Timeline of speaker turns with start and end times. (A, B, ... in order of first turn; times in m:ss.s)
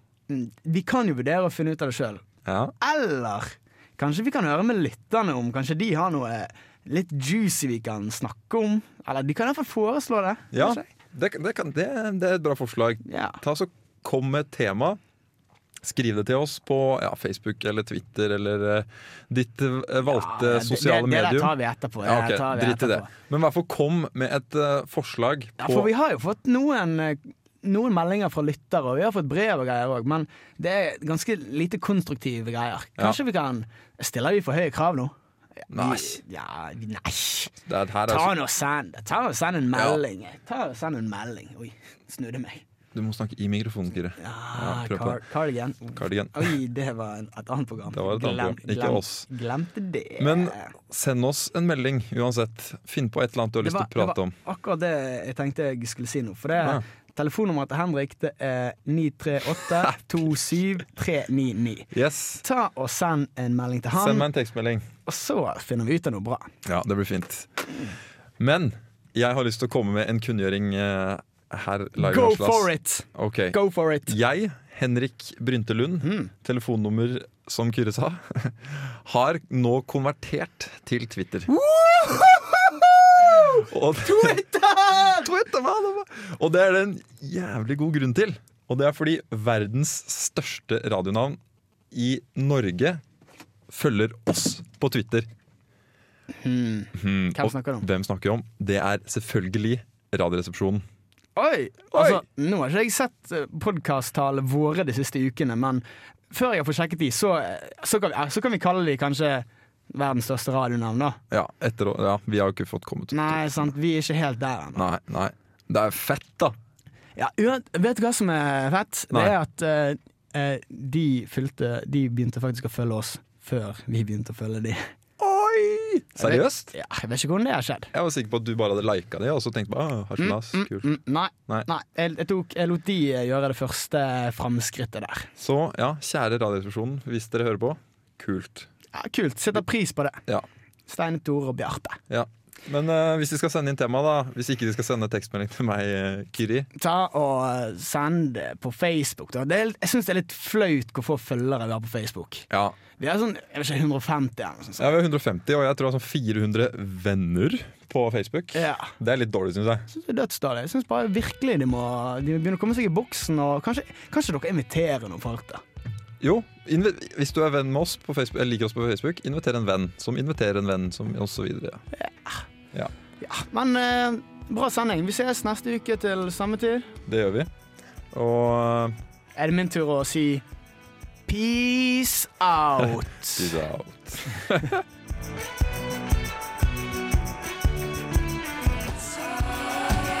0:00.3-0:02.2 A
0:02.4-0:02.7 B
0:02.8-0:10.9 A
0:10.5-0:15.0 B
0:13.0-0:13.4 A
0:15.8-0:25.9 B
0:20.0-0:23.1 A
0:25.6-0:37.5 A
0:35.7-0:36.2 B
0:37.6-0:38.3 B
0:38.1-0:42.6 A
0:39.7-0:40.0 B
0:42.9-0:45.2 B
0:44.2-0:50.7 A
0:46.0-0:46.6 B
0:47.9-0:49.3 B
0:50.2-0:54.3 B
0:53.6-1:04.3 A
1:01.9-1:02.4 B
1:03.9-1:04.8 B
1:05.0-1:06.5 A
1:06.6-1:07.6 B
1:08.4-1:21.5 B
1:12.0-1:14.1 A
1:16.0-1:16.3 A
1:21.5-1:25.3 A
1:23.7-1:24.6 B
1:25.1-1:31.4 B
1:31.9-1:33.0 B
1:33.7-1:35.3 B
1:36.3-1:37.8 A
1:36.9-1:40.8 B
1:41.4-1:51.2 A
1:41.9-1:42.2 B
1:51.3-1:53.6 B
1:53.1-1:54.9 A
1:54.8-1:56.5 B
1:57.2-2:04.8 A
2:05.2-2:06.7 B
2:06.2-2:07.9 A
2:07.9-2:10.9 B
2:10.2-2:15.3 A
2:15.4-2:18.7 B
2:18.9-2:20.2 A
2:20.9-2:22.0 A
2:22.1-2:26.7 B
2:26.8-2:34.9 A
2:32.5-2:32.8 B
2:34.8-2:39.8 B
2:38.5-2:38.9 A
2:39.9-2:45.6 A
2:46.2-2:51.8 B
2:51.9-2:52.4 A
2:53.2-2:56.9 A
2:57.1-2:57.5 B
2:58.1-2:58.9 B
2:59.4-3:00.4 A
3:01.3-3:03.5 A
3:03.3-3:04.8 B